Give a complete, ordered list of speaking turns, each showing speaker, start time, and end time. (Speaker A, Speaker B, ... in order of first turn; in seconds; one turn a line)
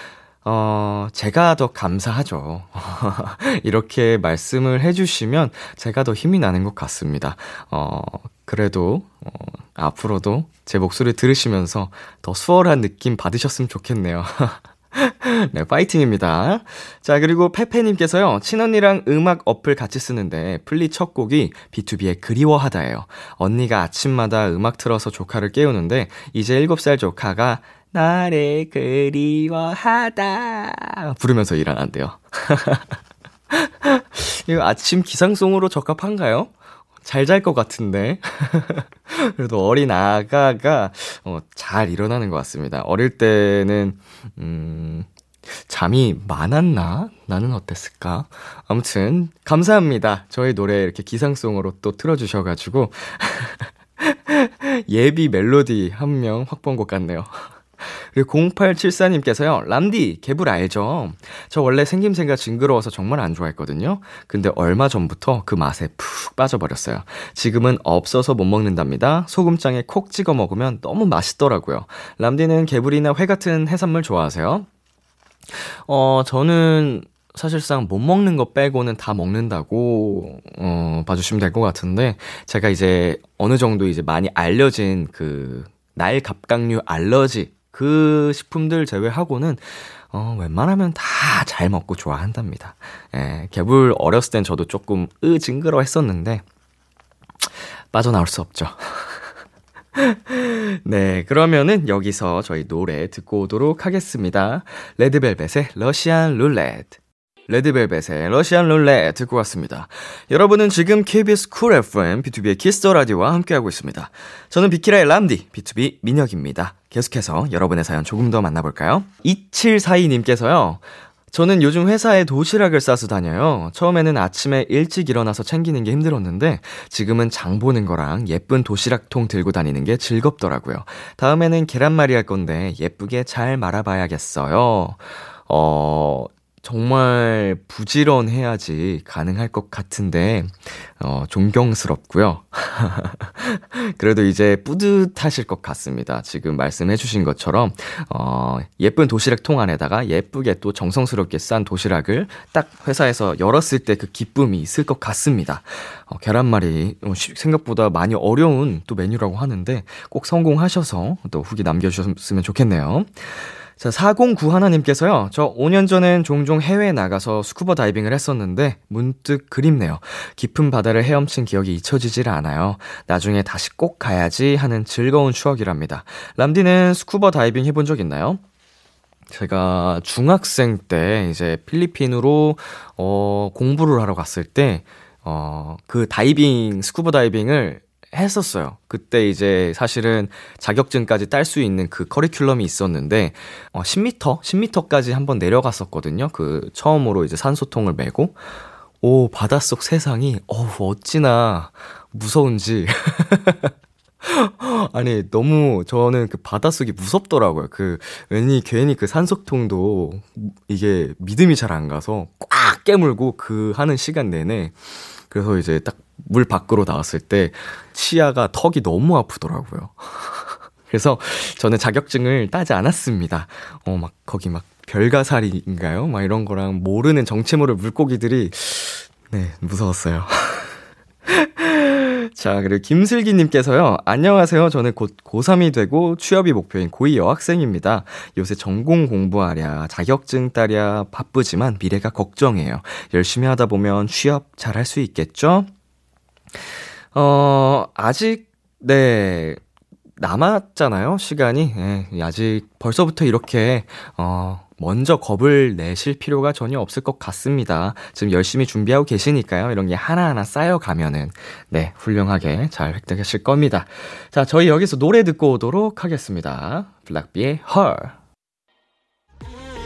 Speaker A: 0.4-32.9
Speaker A: 33.5-36.5
Speaker A: 37.0-45.1
Speaker A: 45.6-74.7
Speaker A: 75.9-96.4
Speaker A: 97.9-99.3
Speaker A: 100.0-178.4
Speaker A: 179.3-198.4
Speaker A: 199.0-203.7
Speaker A: 204.2-230.7
Speaker A: 231.3-245.7
Speaker A: 247.1-249.6
Speaker A: 250.2-268.2